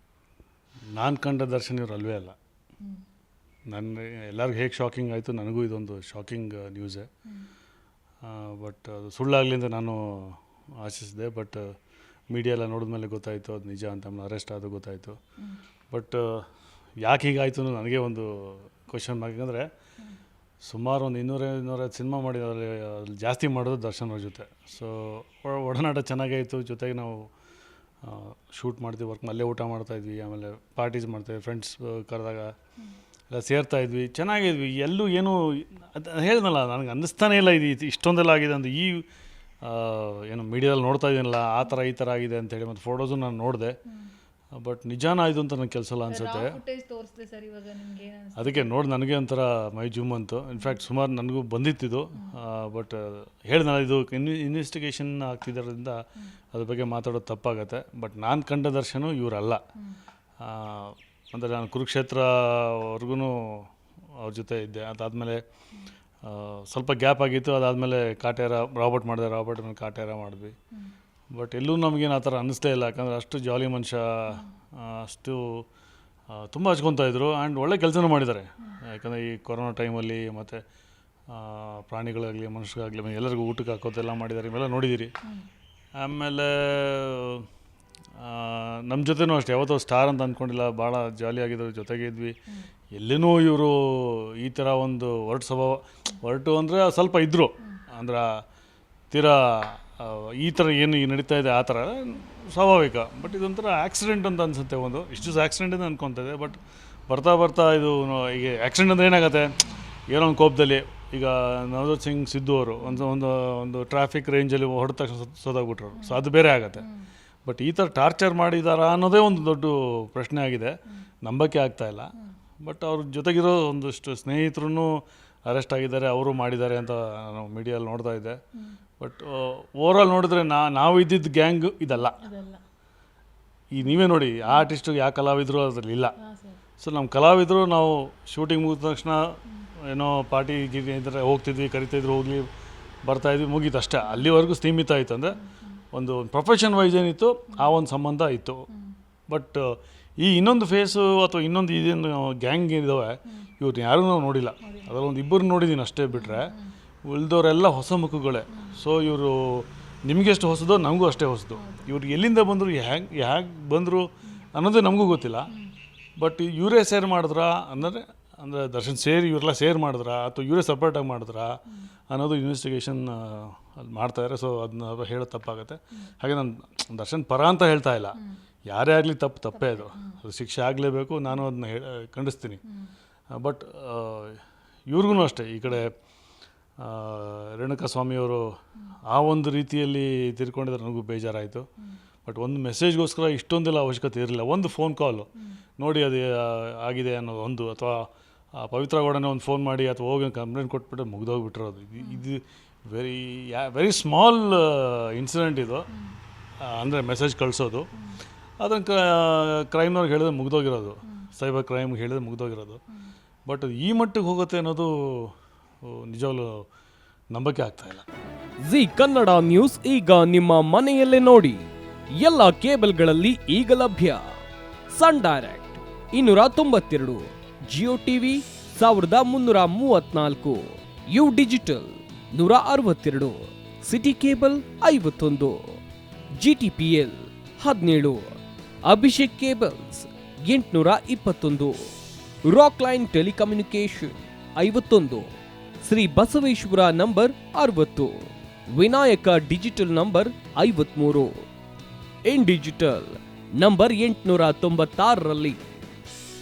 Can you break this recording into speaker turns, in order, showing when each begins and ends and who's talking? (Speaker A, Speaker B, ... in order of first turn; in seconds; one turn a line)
Speaker A: 0.9-2.3
Speaker A: 3.7-7.1
Speaker A: 8.2-11.7
Speaker A: 12.3-15.2
Speaker A: 15.9-16.4
Speaker A: 17.0-19.7
Speaker A: 20.6-27.3
Speaker A: 28.0-32.5
Speaker A: 33.3-39.0
Speaker A: 39.6-43.8
Speaker A: 44.5-46.6
Speaker B: 46.2-48.7
Speaker A: 48.4-56.0
Speaker A: 56.5-59.6
Speaker A: 60.4-63.6
Speaker A: 64.2-65.4
Speaker A: 66.2-70.5
Speaker A: 71.3-75.6
Speaker A: 76.3-80.6
Speaker A: 81.3-85.1
Speaker A: 86.0-87.5
Speaker A: 88.2-92.3
Speaker A: 92.9-98.4
Speaker A: 99.1-109.6
Speaker A: 110.1-116.8
Speaker A: 117.4-122.1
Speaker A: 122.6-128.4
Speaker A: 129.0-132.3
Speaker B: 132.2-132.6
Speaker A: 133.7-136.1
Speaker B: 136.2-136.6
Speaker A: 136.8-139.3
Speaker A: 139.8-142.4
Speaker A: 143.0-145.4
Speaker A: 145.9-148.7
Speaker A: 149.3-156.5
Speaker B: 156.2-156.6
Speaker A: 157.0-165.5
Speaker B: 161.6-161.9
Speaker A: 166.2-182.6
Speaker B: 179.5-180.2
Speaker A: 183.3-184.4
Speaker A: 184.9-185.9
Speaker A: 186.8-188.5
Speaker A: 189.1-191.7
Speaker A: 192.2-205.9
Speaker A: 206.6-207.9
Speaker A: 208.6-212.8
Speaker A: 213.4-216.6
Speaker A: 217.3-218.0
Speaker C: 218.6-224.2
Speaker C: 224.9-235.8
Speaker C: 236.4-238.4
Speaker C: 238.9-241.9
Speaker C: 242.4-245.3
Speaker C: 245.8-251.4
Speaker C: 252.2-255.6